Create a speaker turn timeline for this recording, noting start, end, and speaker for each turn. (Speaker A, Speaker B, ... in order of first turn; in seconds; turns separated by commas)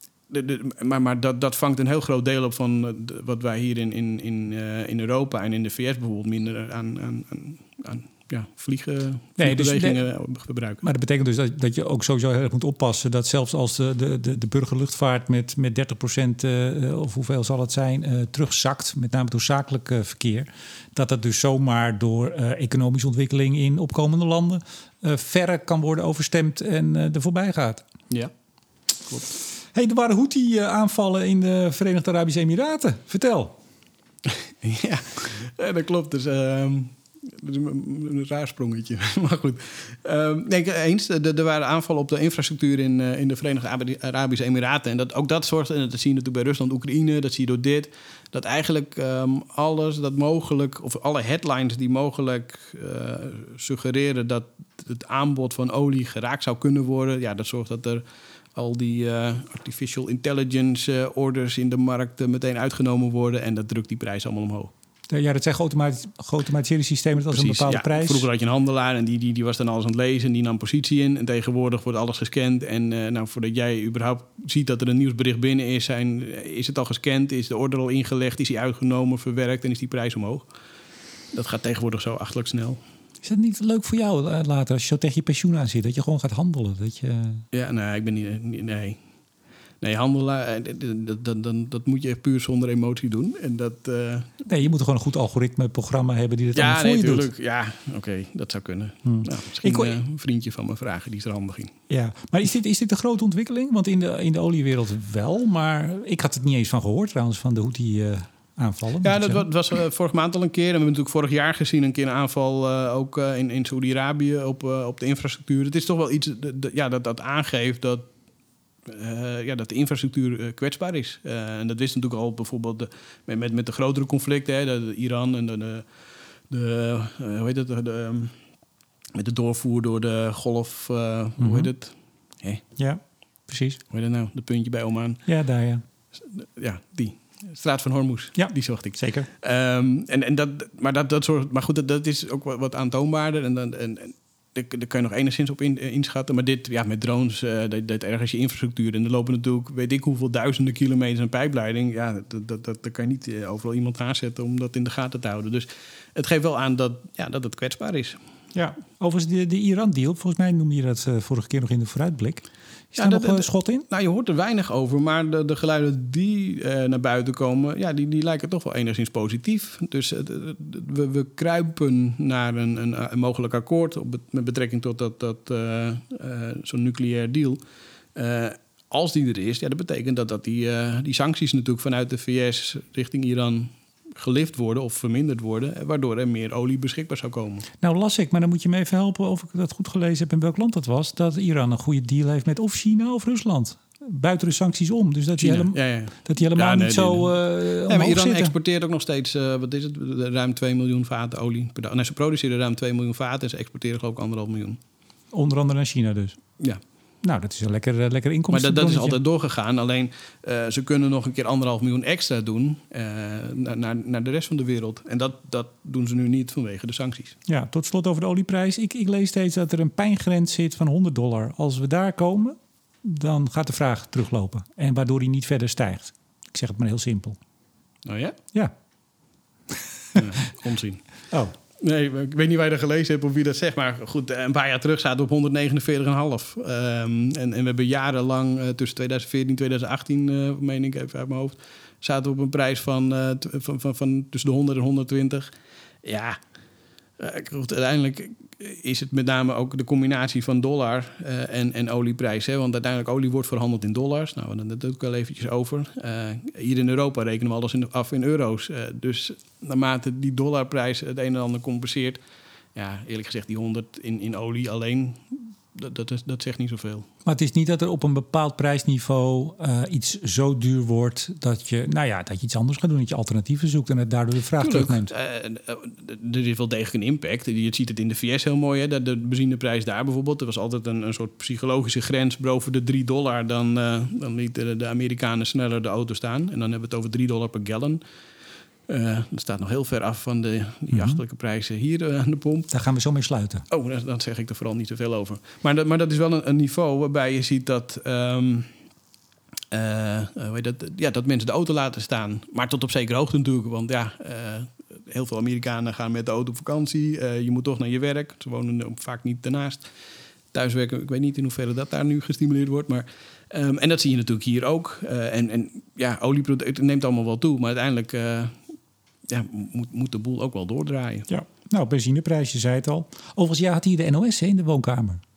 Speaker A: 0.3-10.8, Speaker B: 9.4-10.0, Speaker B: 10.8-27.8, Speaker A: 29.1-29.4, Speaker B: 29.7-33.5, Speaker A: 34.2-58.0, Speaker A: 58.5-64.7, Speaker B: 65.1-68.2, Speaker A: 67.3-80.5, Speaker A: 81.3-82.8, Speaker B: 83.2-87.4, Speaker A: 87.5-89.0, Speaker A: 89.8-94.4, Speaker B: 94.5-97.3, Speaker A: 96.5-101.7, Speaker B: 99.0-100.0, Speaker B: 101.9-109.5, Speaker A: 109.0-118.1, Speaker A: 118.8-125.9, Speaker A: 126.5-128.3, Speaker A: 129.1-132.6, Speaker B: 131.4-131.7, Speaker B: 132.8-133.8, Speaker A: 133.9-135.2, Speaker B: 135.2-135.8, Speaker A: 136.2-158.2, Speaker B: 138.3-139.3, Speaker B: 158.5-163.8, Speaker A: 163.0-177.6, Speaker A: 178.1-187.7, Speaker B: 187.8-198.5, Speaker A: 195.4-197.3, Speaker A: 197.9-204.8, Speaker B: 205.3-206.4, Speaker B: 207.2-209.2, Speaker A: 208.5-217.3, Speaker B: 217.5-227.4, Speaker A: 228.0-228.4, Speaker B: 230.1-230.5, Speaker A: 230.1-231.0, Speaker A: 231.8-245.5, Speaker A: 246.0-246.4, Speaker A: 247.2-262.2, Speaker A: 262.7-267.1, Speaker B: 267.2-275.1, Speaker A: 274.6-288.0, Speaker A: 288.9-292.7, Speaker B: 290.9-291.2, Speaker B: 292.7-293.6, Speaker A: 293.7-298.7, Speaker A: 299.7-309.9, Speaker A: 310.5-318.6, Speaker A: 319.2-321.3, Speaker B: 321.3-325.2